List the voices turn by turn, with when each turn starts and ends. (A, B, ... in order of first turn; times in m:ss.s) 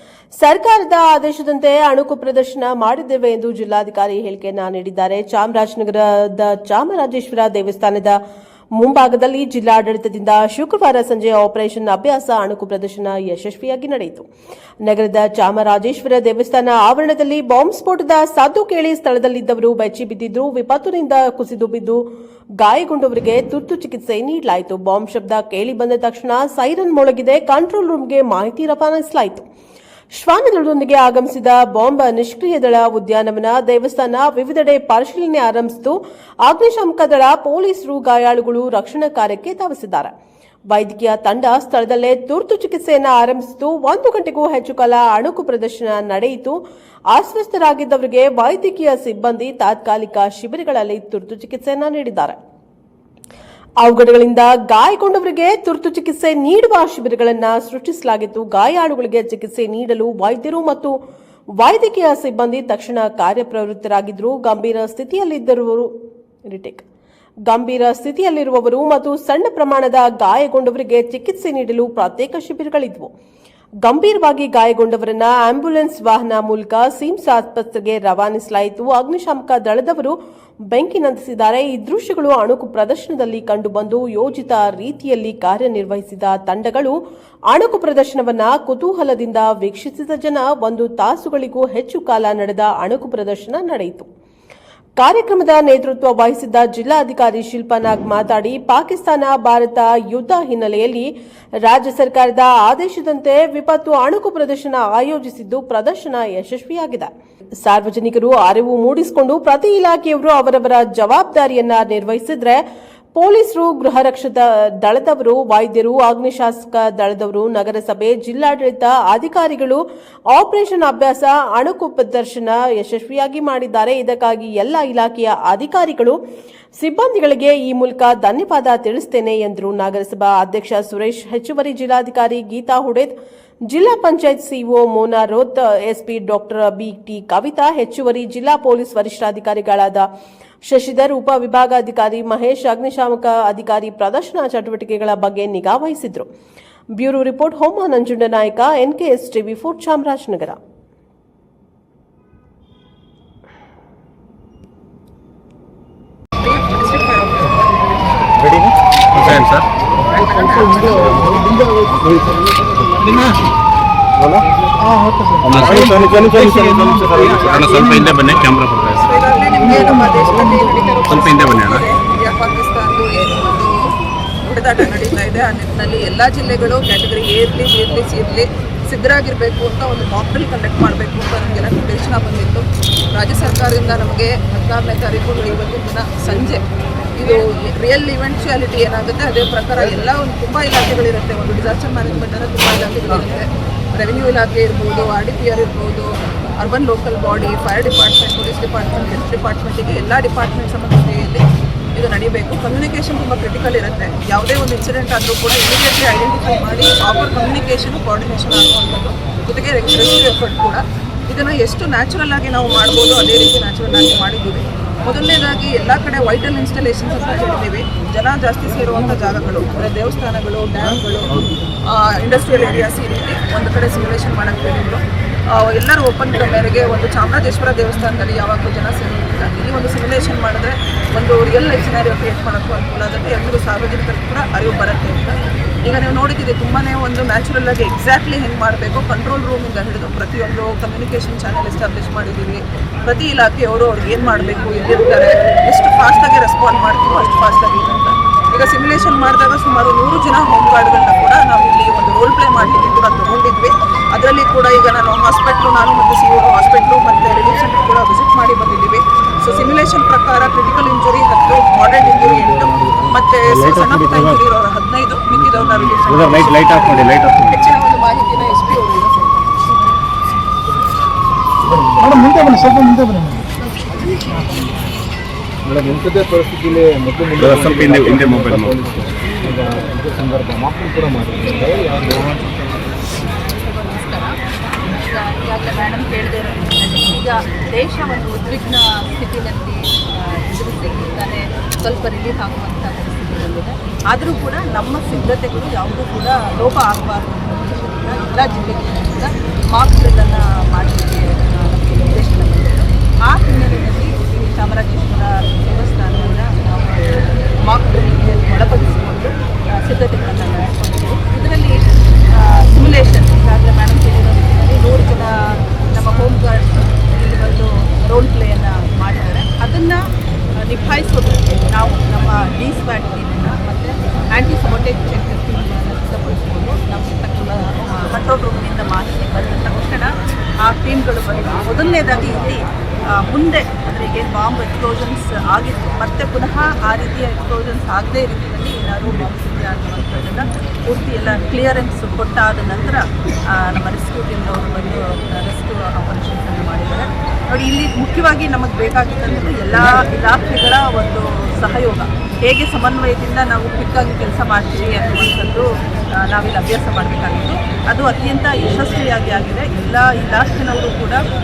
0:00.4-0:08.2 A
0:08.8-0:14.3 A
0:14.8-0:22.0 A
0:22.6-0:29.4 A
0:30.1-0:40.1 A
0:40.7-0:46.6 A
0:47.1-0:52.4 A
0:53.8-1:01.0 A
1:01.6-1:05.9 A
1:06.5-1:06.8 A
1:07.5-1:13.1 A
1:13.8-1:20.2 A
1:20.7-1:27.0 A
1:27.5-1:34.1 A
1:35.0-1:41.1 A
1:41.6-1:47.1 A
1:47.6-1:52.6 A
1:53.1-1:59.8 A
2:00.3-2:06.2 A
2:06.8-2:13.1 A
2:13.7-2:20.1 A
2:20.6-2:26.3 A
2:27.0-2:30.6 A
2:36.4-2:37.8 B
2:39.2-2:39.7 C
2:40.1-2:41.7 B
2:44.2-2:44.4 D
2:45.4-2:48.1 D
2:45.4-2:49.1 C
2:49.0-2:54.0 B
2:51.1-2:51.8 C
2:54.5-3:06.6 B
3:07.2-4:29.3 B
4:23.5-4:24.4 D
4:26.1-4:27.1 D
4:26.5-4:27.4 C
4:31.7-4:32.9 E
4:32.3-4:33.4 D
4:35.6-4:42.4 E
4:37.4-4:38.7 C
4:43.3-5:20.0 F
5:20.6-6:01.2 F